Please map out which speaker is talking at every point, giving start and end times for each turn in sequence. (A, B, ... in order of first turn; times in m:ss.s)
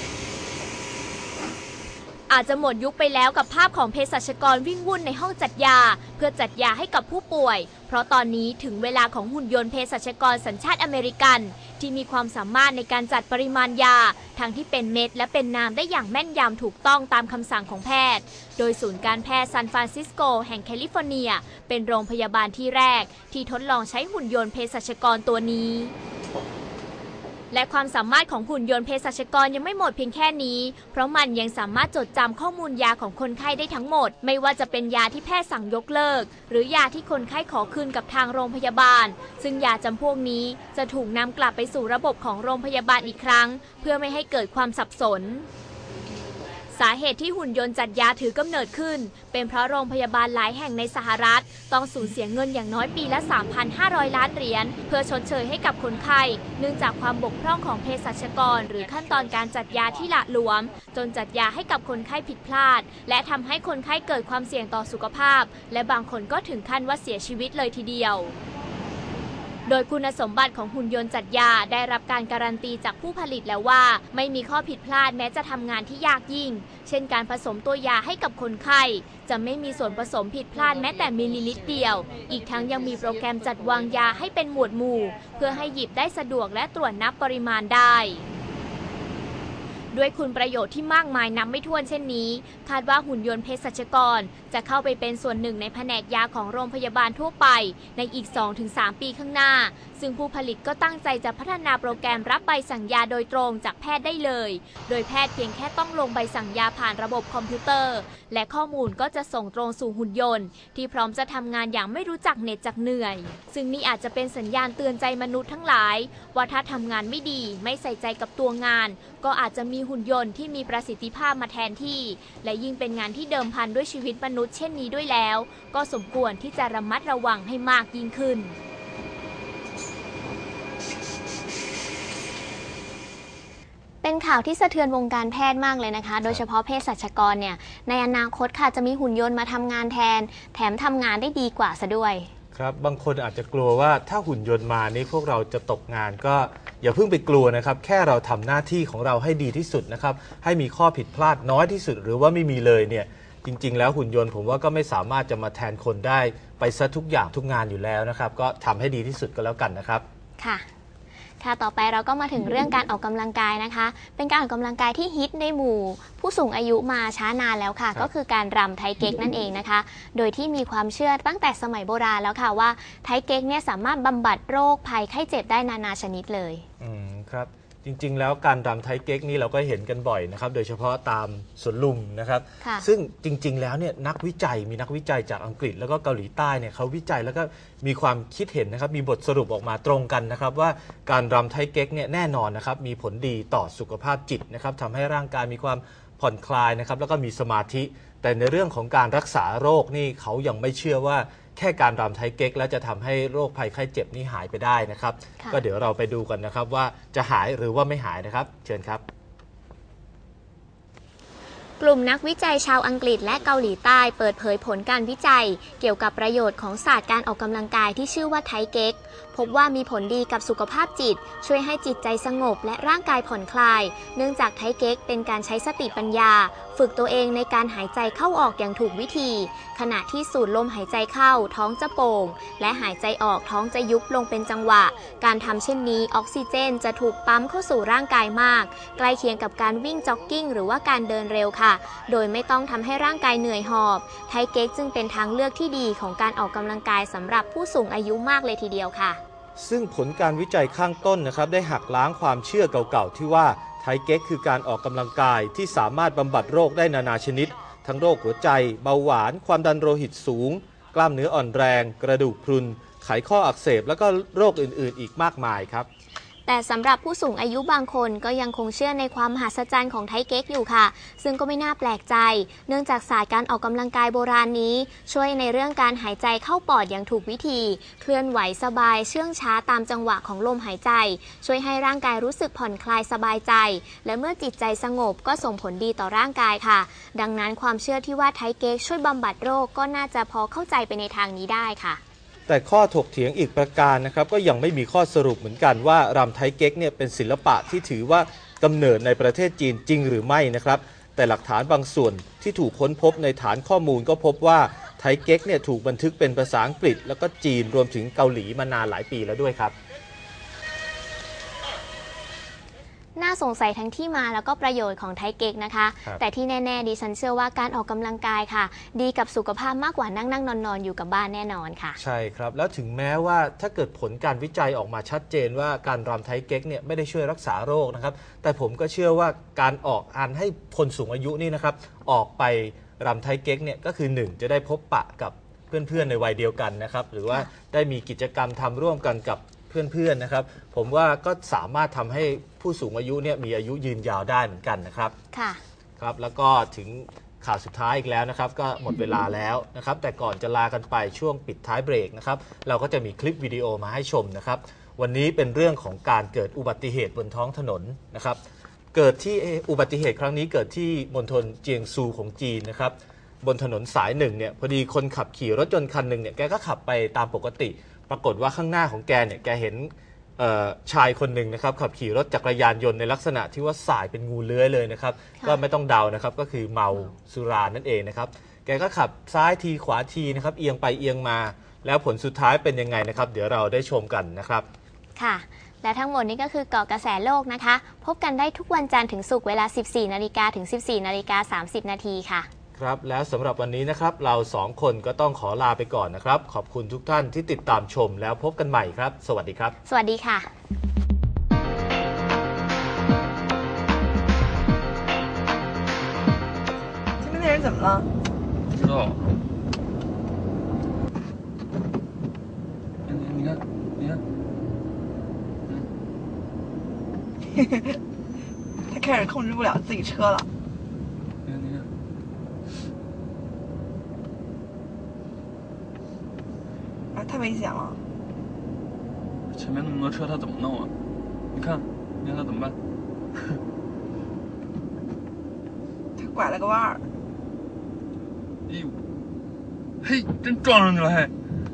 0:02.3-0:25.9 A
0:27.5-0:45.5 A
0:46.7-1:08.3 A
1:09.7-1:28.3 A
1:29.9-2:08.6 A
2:14.0-2:22.3 B
2:22.5-2:40.0 C
2:40.4-2:40.7 B
2:41.4-2:56.7 B
2:56.8-3:29.0 C
3:02.6-3:02.9 B
3:31.8-4:09.2 B
4:09.6-4:25.9 C
4:26.5-4:52.0 B
4:52.5-5:09.8 C
5:13.2-5:22.0 B
5:22.0-5:45.2 C
5:45.3-5:45.6 B
5:46.0-5:58.4 C
5:58.9-6:24.7 C
6:25.2-6:32.5 B
6:32.8-6:39.8 C
6:39.9-6:40.5 B
6:47.2-6:48.1 D
6:48.7-6:49.2 E
6:53.1-6:54.2 E
6:57.5-6:58.0 D
6:58.9-7:00.5 D
7:01.4-7:01.9 E
7:07.2-7:08.0 D
7:09.5-7:10.9 E
7:11.5-7:12.8 E
7:16.2-7:17.0 D
7:18.7-7:19.0 E
7:20.0-7:21.4 E